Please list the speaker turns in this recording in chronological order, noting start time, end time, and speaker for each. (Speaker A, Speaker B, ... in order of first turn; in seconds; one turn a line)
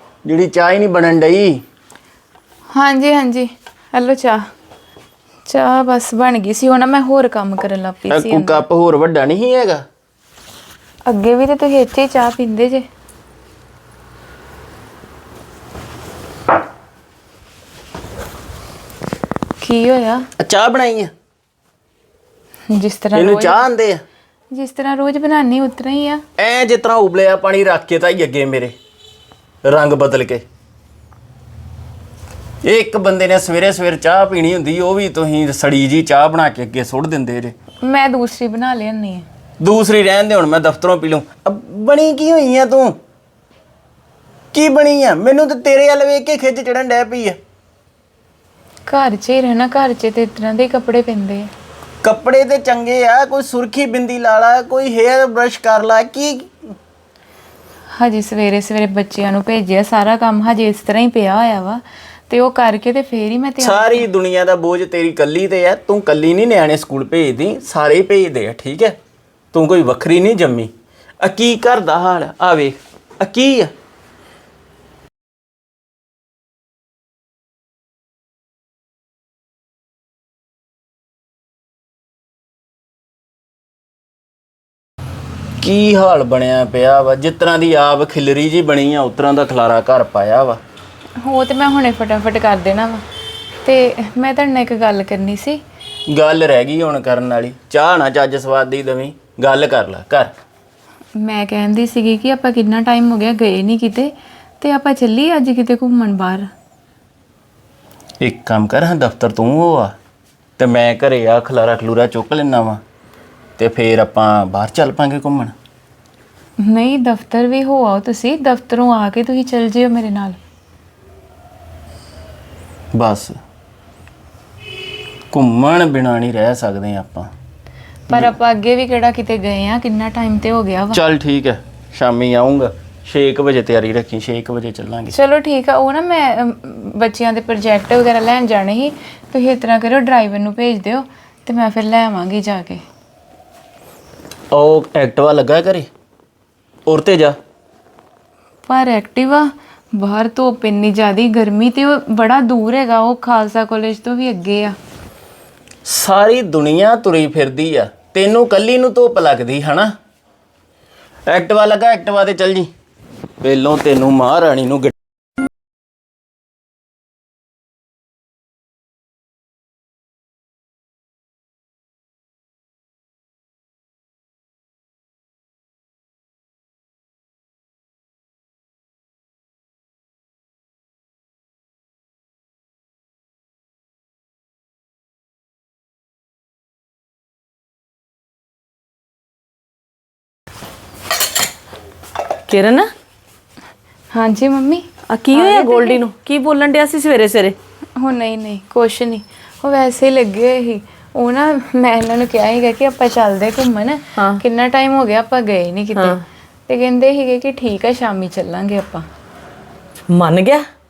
Speaker A: 0.2-1.6
Speaker B: 2.8-4.4
Speaker B: 5.5-8.6
Speaker A: 8.1-9.8
Speaker B: 11.1-12.9
Speaker B: 19.6-20.3
Speaker A: 20.4-21.1
Speaker B: 22.7-23.6
Speaker A: 23.1-24.0
Speaker B: 24.5-26.2
Speaker A: 26.4-28.8
Speaker A: 29.6-30.4
Speaker A: 32.6-37.5
Speaker B: 37.8-39.3
Speaker A: 39.6-43.0
Speaker A: 44.5-47.4
Speaker B: 48.9-51.5
Speaker A: 52.0-56.5
Speaker B: 58.0-64.1
Speaker A: 63.6-69.0
Speaker A: 69.5-73.7
Speaker A: 85.6-90.6
Speaker B: 91.2-93.0
Speaker B: 93.7-95.6
Speaker A: 96.1-100.3
Speaker B: 101.2-106.5
Speaker A: 108.2-110.0
Speaker A: 110.6-112.8
Speaker A: 113.6-115.5
Speaker B: 116.6-120.4
Speaker A: 122.9-123.4
Speaker A: 125.3-127.3
Speaker B: 128.1-131.0
Speaker A: 130.9-135.2
Speaker B: 135.1-142.8
Speaker A: 144.5-145.9
Speaker A: 146.9-147.4
Speaker B: 148.7-154.8
Speaker A: 155.8-159.9
Speaker A: 161.3-162.7
Speaker A: 163.4-165.0
Speaker C: 192.5-192.9
Speaker B: 194.1-196.0
Speaker C: 195.1-197.6
Speaker B: 198.0-209.1
Speaker C: 204.2-204.4
Speaker C: 205.9-206.2
Speaker C: 210.1-210.6